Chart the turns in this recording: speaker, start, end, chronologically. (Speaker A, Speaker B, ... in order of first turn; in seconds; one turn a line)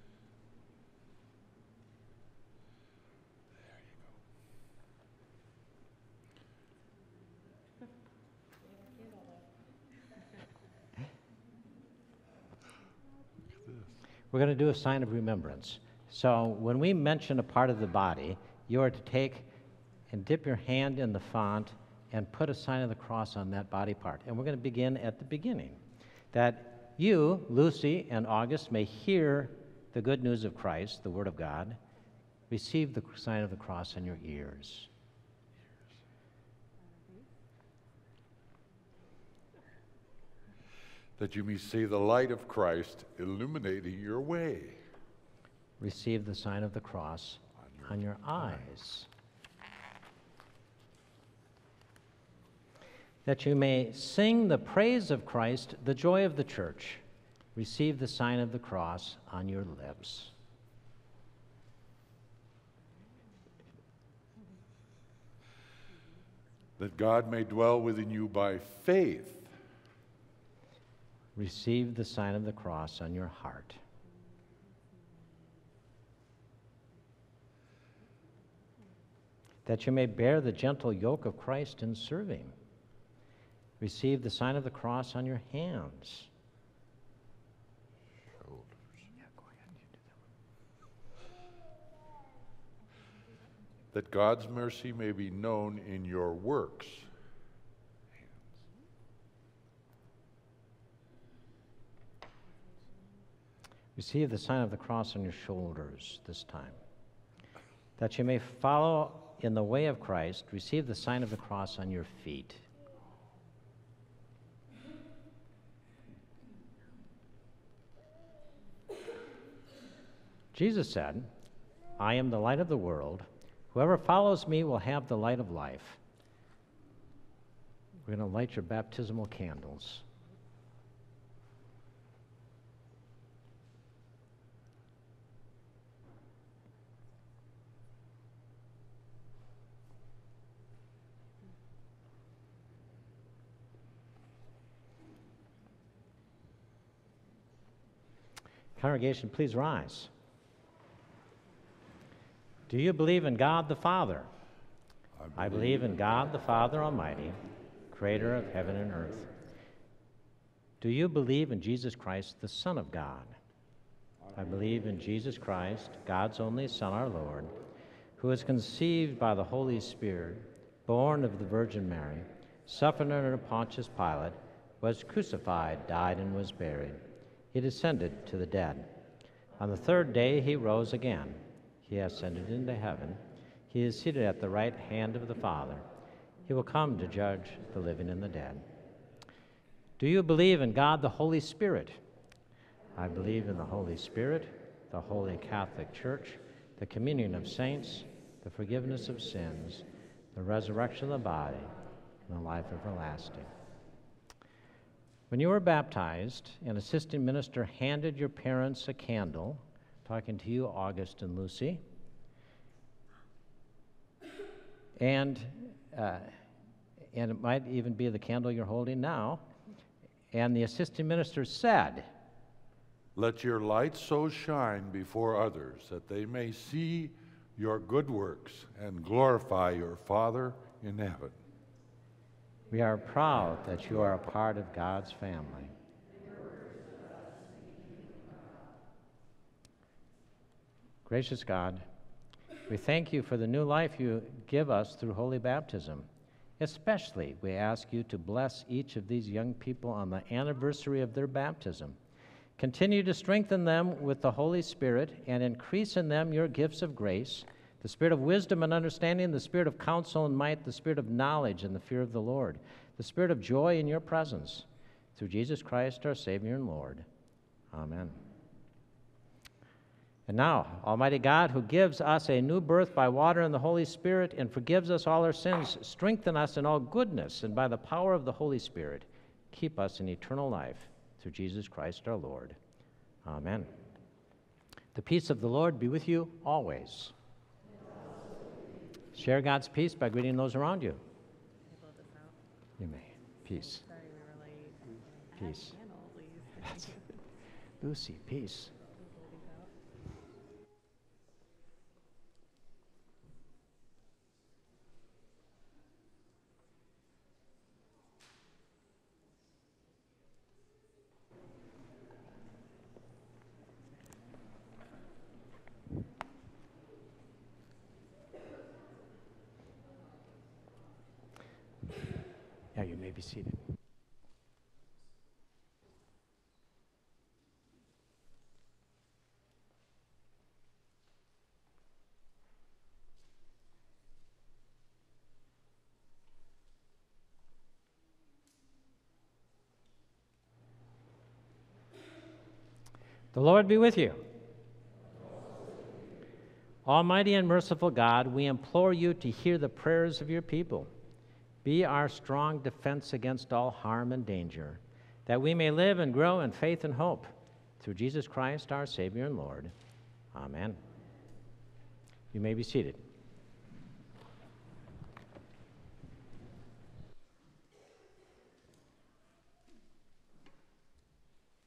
Speaker A: 14.3-19.5
Speaker A: 20.1-25.8
Speaker A: 26.3-31.8
Speaker A: 32.5-34.9
Speaker B: 41.2-44.8
Speaker A: 45.8-49.1
Speaker A: 53.2-57.0
Speaker A: 57.5-60.3
Speaker B: 66.8-69.5
Speaker A: 71.4-73.8
Speaker A: 79.7-82.5
Speaker A: 83.8-86.3
Speaker B: 88.3-89.0
Speaker B: 93.9-97.1
Speaker A: 104.0-106.8
Speaker A: 108.0-112.6
Speaker A: 120.5-121.3
Speaker A: 122.0-126.0
Speaker A: 128.1-130.1
Speaker A: 148.8-150.1
Speaker A: 152.7-154.3
Speaker B: 155.2-155.9
Speaker A: 155.3-157.4
Speaker A: 157.9-159.3
Speaker A: 160.8-163.4
Speaker A: 164.3-167.5
Speaker A: 168.2-177.0
Speaker A: 177.5-178.9
Speaker A: 179.6-185.8
Speaker A: 186.5-188.7
Speaker A: 190.0-192.0
Speaker A: 193.0-201.7
Speaker A: 202.3-203.5
Speaker A: 205.3-211.8
Speaker A: 215.0-216.3
Speaker A: 217.1-219.4
Speaker A: 220.3-222.1
Speaker B: 223.2-231.4
Speaker A: 232.7-235.7
Speaker A: 241.1-241.8
Speaker A: 242.7-246.1
Speaker A: 246.6-252.0
Speaker A: 252.6-267.1
Speaker A: 267.7-268.2
Speaker A: 270.3-282.6
Speaker A: 283.2-283.7
Speaker A: 284.9-287.1
Speaker A: 289.1-291.0
Speaker C: 291.7-292.3
Speaker A: 292.8-293.9
Speaker C: 293.9-296.9
Speaker A: 295.4-295.8
Speaker A: 296.6-297.0
Speaker A: 297.8-298.7
Speaker C: 299.1-299.7
Speaker A: 322.8-323.6
Speaker A: 343.3-344.2
Speaker A: 346.9-350.9
Speaker A: 351.6-359.7
Speaker A: 360.3-360.8
Speaker A: 362.3-363.0